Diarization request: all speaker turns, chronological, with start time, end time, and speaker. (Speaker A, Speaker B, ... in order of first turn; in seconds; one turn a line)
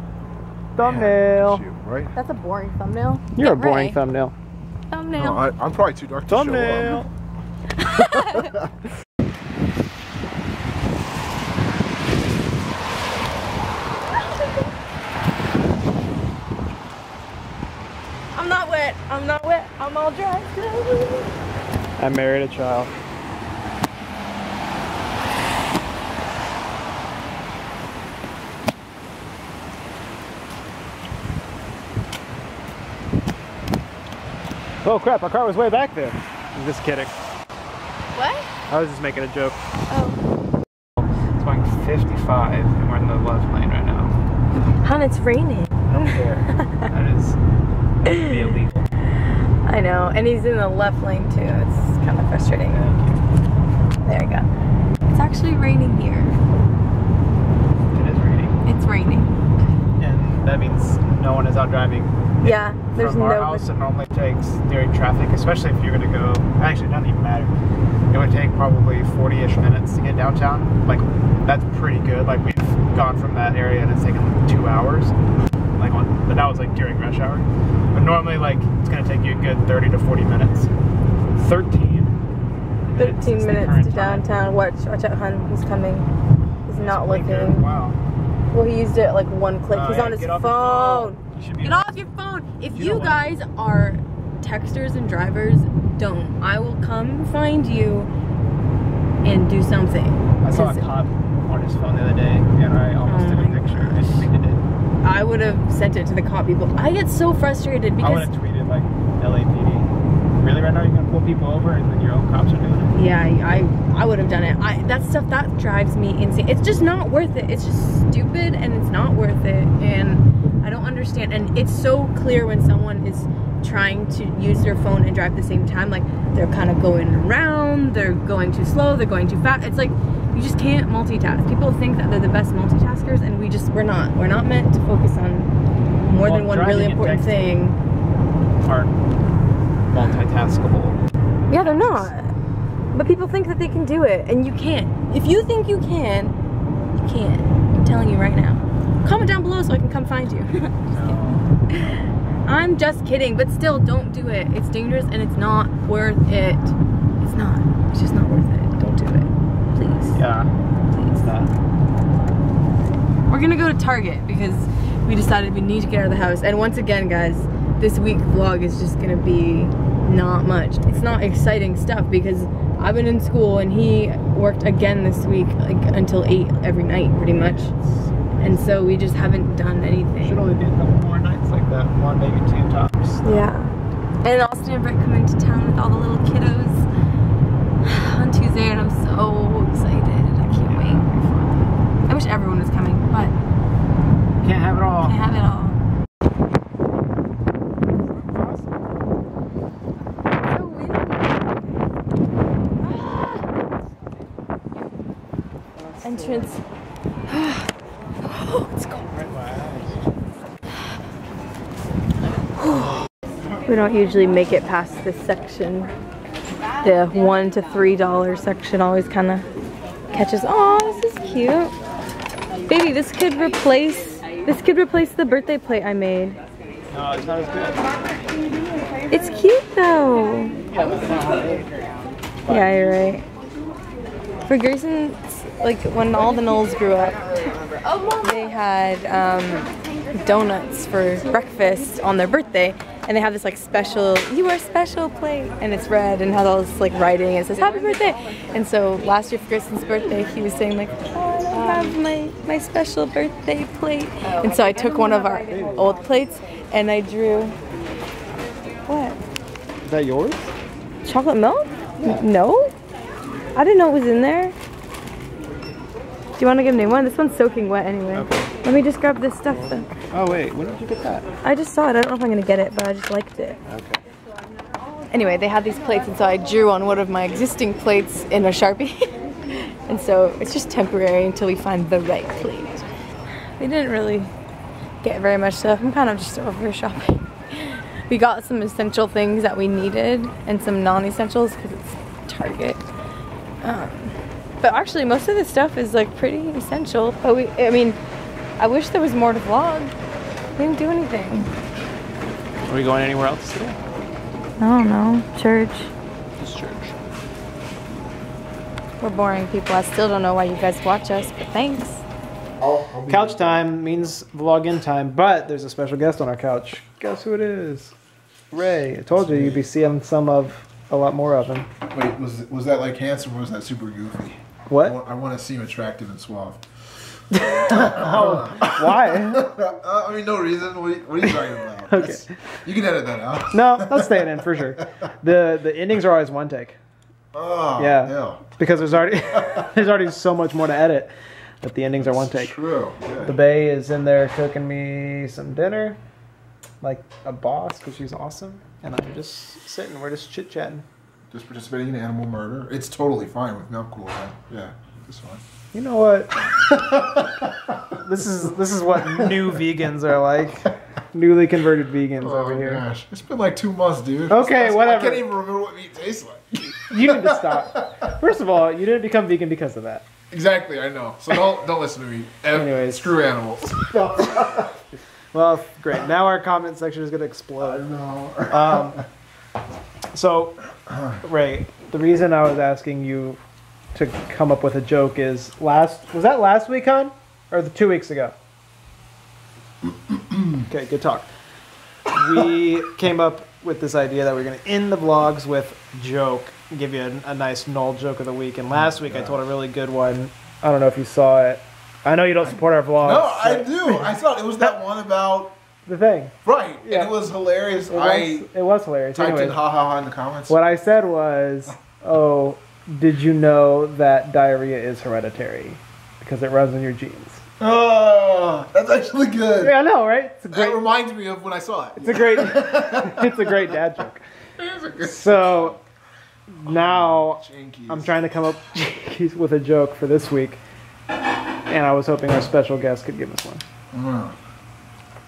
Speaker A: 0.8-1.6
Speaker B: 0.8-2.1
Speaker C: 2.1-4.0
Speaker A: 3.3-4.3
Speaker C: 4.9-5.4
Speaker B: 5.1-7.0
Speaker A: 6.3-7.1
Speaker C: 7.8-8.6
Speaker C: 18.3-21.3
Speaker A: 22.0-22.9
Speaker A: 34.8-37.1
Speaker C: 38.1-38.5
Speaker A: 38.7-39.6
Speaker C: 39.9-40.2
Speaker A: 41.0-44.1
Speaker C: 44.8-46.9
Speaker A: 45.9-47.4
Speaker A: 48.0-48.9
Speaker C: 48.0-48.6
Speaker C: 49.6-52.8
Speaker A: 52.7-53.2
Speaker C: 54.0-54.5
Speaker C: 55.1-56.4
Speaker A: 57.9-58.5
Speaker C: 58.6-59.3
Speaker A: 60.0-67.5
Speaker C: 62.4-63.6
Speaker A: 68.1-75.1
Speaker A: 75.8-80.7
Speaker A: 81.3-82.2
Speaker A: 82.9-84.3
Speaker C: 83.0-86.1
Speaker C: 86.7-87.6
Speaker A: 86.7-88.0
Speaker C: 88.5-98.1
Speaker A: 89.7-91.9
Speaker A: 92.7-93.2
Speaker C: 99.2-100.9
Speaker A: 100.4-104.6
Speaker C: 103.0-104.3
Speaker C: 105.0-108.3
Speaker A: 108.0-113.0
Speaker C: 112.9-135.5
Speaker C: 136.0-137.8
Speaker A: 136.2-137.6
Speaker A: 138.6-138.9
Speaker A: 139.9-141.0
Speaker C: 141.5-142.3
Speaker A: 141.5-142.1
Speaker C: 142.9-146.3
Speaker C: 147.0-150.8
Speaker A: 150.9-151.4
Speaker C: 151.7-160.2
Speaker A: 160.1-161.5
Speaker C: 163.3-177.7
Speaker A: 177.4-178.1
Speaker C: 178.4-180.4
Speaker A: 180.2-183.4
Speaker C: 183.2-186.9
Speaker C: 187.8-193.3
Speaker A: 190.5-191.1
Speaker A: 194.4-195.2
Speaker C: 195.0-195.8
Speaker A: 198.3-198.6
Speaker C: 200.5-201.6
Speaker C: 202.8-203.4
Speaker C: 206.0-206.6
Speaker C: 207.3-207.7
Speaker C: 208.2-209.1
Speaker A: 209.1-210.0
Speaker C: 212.6-212.9
Speaker C: 213.7-215.9
Speaker C: 216.8-219.5
Speaker C: 220.1-221.7
Speaker C: 222.7-226.4
Speaker A: 226.9-227.8
Speaker C: 229.1-230.6
Speaker A: 230.7-232.9
Speaker C: 232.4-233.2
Speaker C: 234.4-257.6
Speaker A: 255.5-255.9
Speaker C: 258.9-259.2
Speaker A: 259.8-260.5
Speaker C: 261.0-262.7
Speaker C: 263.5-264.5
Speaker C: 266.4-269.9
Speaker A: 268.1-268.5
Speaker A: 270.1-271.3
Speaker C: 271.4-273.6
Speaker A: 273.7-274.0
Speaker C: 275.1-279.0
Speaker C: 279.5-282.9
Speaker C: 283.6-284.3
Speaker C: 285.0-292.8
Speaker C: 293.6-298.0
Speaker C: 298.6-299.9
Speaker C: 300.6-301.5
Speaker A: 302.7-303.8
Speaker C: 304.6-305.9
Speaker A: 306.4-306.9
Speaker C: 309.0-312.0
Speaker B: 312.6-313.7
Speaker A: 313.1-317.9
Speaker A: 318.5-321.7
Speaker B: 319.1-319.6
Speaker B: 321.9-326.6
Speaker A: 324.7-324.9
Speaker A: 327.3-329.6
Speaker B: 327.4-334.8
Speaker A: 331.9-332.3
Speaker A: 333.5-336.8
Speaker B: 337.3-339.7
Speaker A: 337.8-342.6
Speaker B: 342.0-343.3
Speaker A: 343.2-346.0
Speaker A: 346.8-350.8
Speaker B: 351.3-355.4
Speaker A: 355.7-356.3
Speaker B: 356.4-357.8
Speaker A: 358.0-362.8
Speaker B: 359.1-359.5
Speaker B: 362.2-367.9
Speaker A: 364.3-365.2
Speaker A: 366.9-370.0
Speaker B: 370.3-374.7
Speaker A: 372.5-373.1
Speaker A: 375.3-377.8
Speaker B: 377.6-379.0
Speaker A: 378.5-379.0
Speaker A: 380.1-380.6
Speaker A: 381.2-383.4
Speaker A: 383.9-388.3
Speaker A: 390.6-391.3
Speaker A: 392.1-404.1
Speaker B: 398.7-399.4
Speaker B: 403.0-405.5
Speaker A: 405.9-407.1
Speaker B: 406.4-408.5
Speaker A: 407.9-409.6
Speaker B: 409.1-410.8
Speaker A: 410.5-417.4
Speaker B: 417.6-419.7
Speaker A: 419.6-420.8
Speaker B: 420.5-423.7
Speaker A: 422.0-424.2
Speaker B: 424.6-425.7
Speaker A: 425.0-425.8
Speaker A: 426.5-430.6
Speaker B: 426.6-428.1
Speaker A: 431.7-433.6
Speaker B: 433.9-434.4